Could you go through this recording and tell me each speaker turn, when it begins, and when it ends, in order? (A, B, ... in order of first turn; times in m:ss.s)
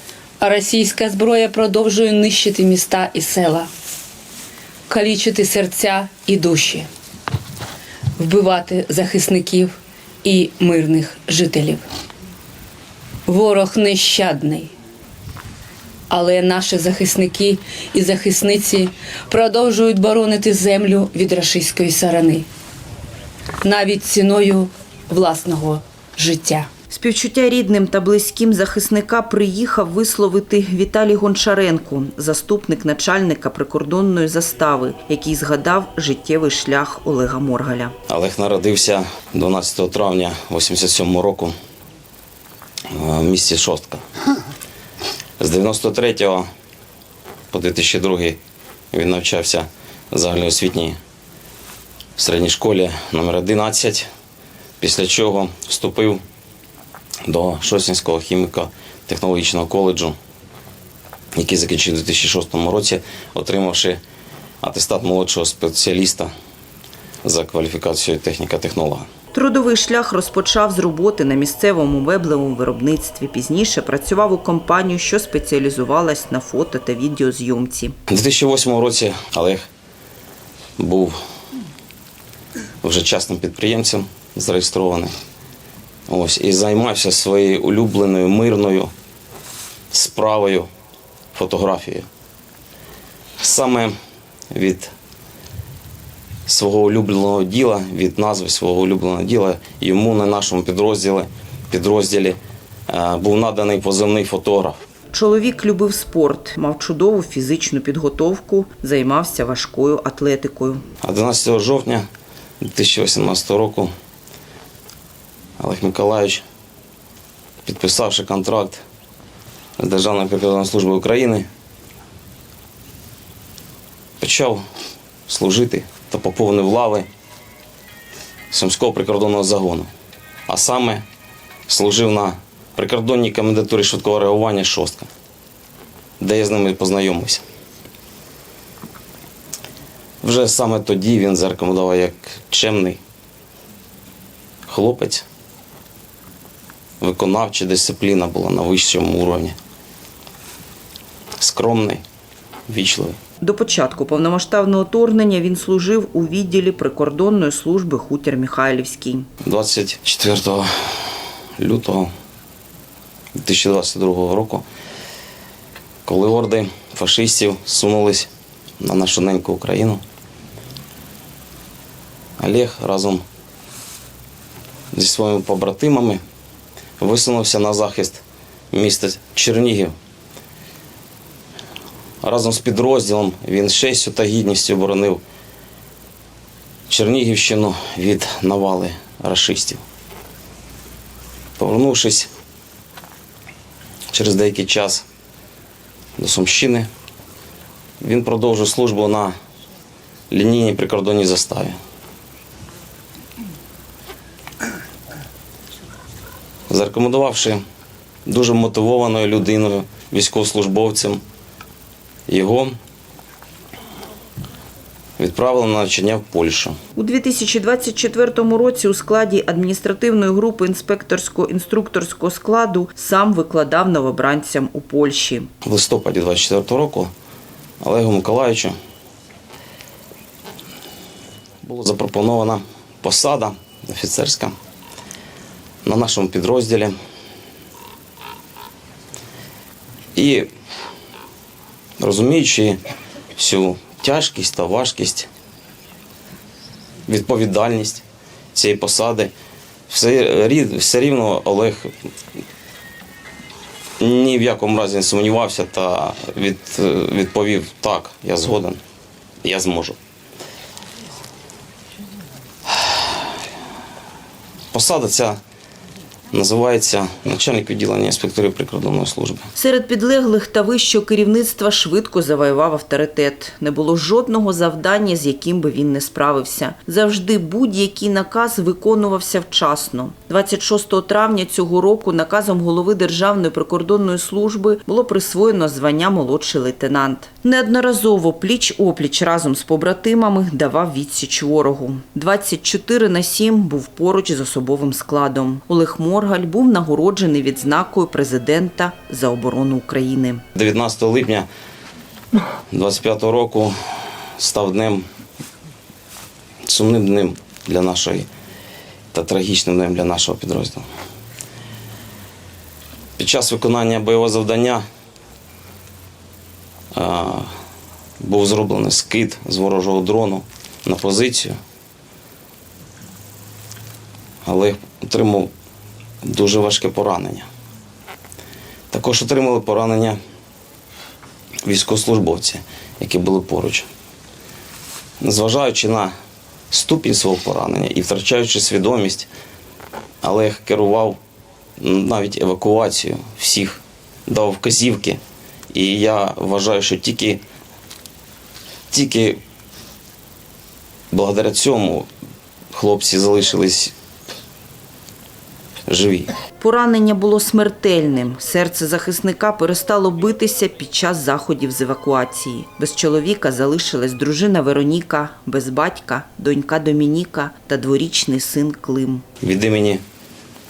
0:00.4-0:03.7 A
0:04.9-0:06.9 A
0:08.2-0:11.8 A
0:13.3-0:14.7 A
0:16.1-0:22.5 A
0:23.6-0:26.7 A
0:26.9-0:38.0 B
0:38.1-0:41.5 C
0:42.9-0:44.0 C
0:45.4-0:46.5 C
0:47.5-0:48.4 C
0:48.9-0:51.0 C
0:52.2-0:54.1 C
0:54.8-0:56.2 C
0:57.3-1:00.2 C
1:01.4-1:04.0 C
1:04.6-1:06.3 C
1:07.2-1:09.1 C
1:09.3-1:18.0 B
1:18.1-1:19.7 C
1:20.8-1:21.2 C
1:22.8-1:25.1 C
1:26.1-1:28.9 C
1:29.9-1:30.7 C
1:31.3-1:32.1 C
1:33.4-1:33.9 C
1:34.5-1:34.9 C
1:36.5-1:42.4 C
1:42.9-1:44.8 C
1:45.1-1:50.8 B
1:51.0-1:52.1 C
1:52.6-1:53.9 C
1:55.6-1:56.4 C
1:57.6-1:58.8 C
1:59.8-2:01.5 C
2:04.2-2:04.6 C
2:05.3-2:07.1 C
2:08.5-2:09.9 C
2:10.5-2:11.0 C
2:11.7-2:15.1 C
2:16.2-2:17.4 C
2:20.2-2:23.0 C
2:24.7-2:25.2 C
2:27.0-2:29.6 C
2:31.4-2:32.0 C
2:32.7-2:33.2 C
2:33.4-2:39.3 B
2:39.4-2:40.7 C
2:41.6-2:42.1 C
2:43.4-2:44.6 C
2:46.1-2:48.3 C
2:48.8-2:50.0 C
2:52.4-2:53.2 C
2:54.9-2:56.2 C
2:57.0-3:00.0 C
3:02.2-3:05.2 C
3:06.9-3:09.8 C
3:11.6-3:12.3 C
3:14.1-3:15.0 C
3:16.2-3:16.9 C
3:18.0-3:19.3 C
3:20.3-3:21.8 C
3:26.7-3:27.6 C
3:28.3-3:31.2 C
3:32.3-3:32.7 C
3:35.2-3:36.8 C
3:37.0-3:45.5 B
3:45.6-3:47.1 C
3:47.8-3:48.8 C
3:51.6-3:54.6 C
3:55.8-3:57.0 C
4:00.2-4:00.5 C
4:02.0-4:02.8 C
4:03.4-4:05.3 C
4:07.1-4:09.3 C
4:09.9-4:11.9 C
4:14.0-4:18.8 C
4:19.4-4:20.0 C
4:24.7-4:25.4 C
4:26.3-4:29.5 C
4:29.6-5:00.4 B
5:00.6-5:01.5 C
5:02.7-5:03.8 C
5:04.4-5:05.0 C
5:06.7-5:08.3 C
5:09.1-5:10.9 C
5:13.2-5:14.8 C
5:17.0-5:17.5 C
5:18.2-5:21.6 C
5:24.4-5:25.5 C
5:26.2-5:27.5 C
5:28.9-5:30.2 C
5:31.7-5:33.9 C
5:35.2-5:36.1 C
5:36.7-5:39.3 C
5:40.2-5:41.2 C
5:41.8-5:45.2 C
5:45.7-5:47.4 C
5:48.9-5:49.4 C
5:51.1-5:52.1 C
5:52.7-5:53.9 C
5:55.9-5:56.3 C
5:56.6-6:09.2 B
6:09.4-6:10.0 C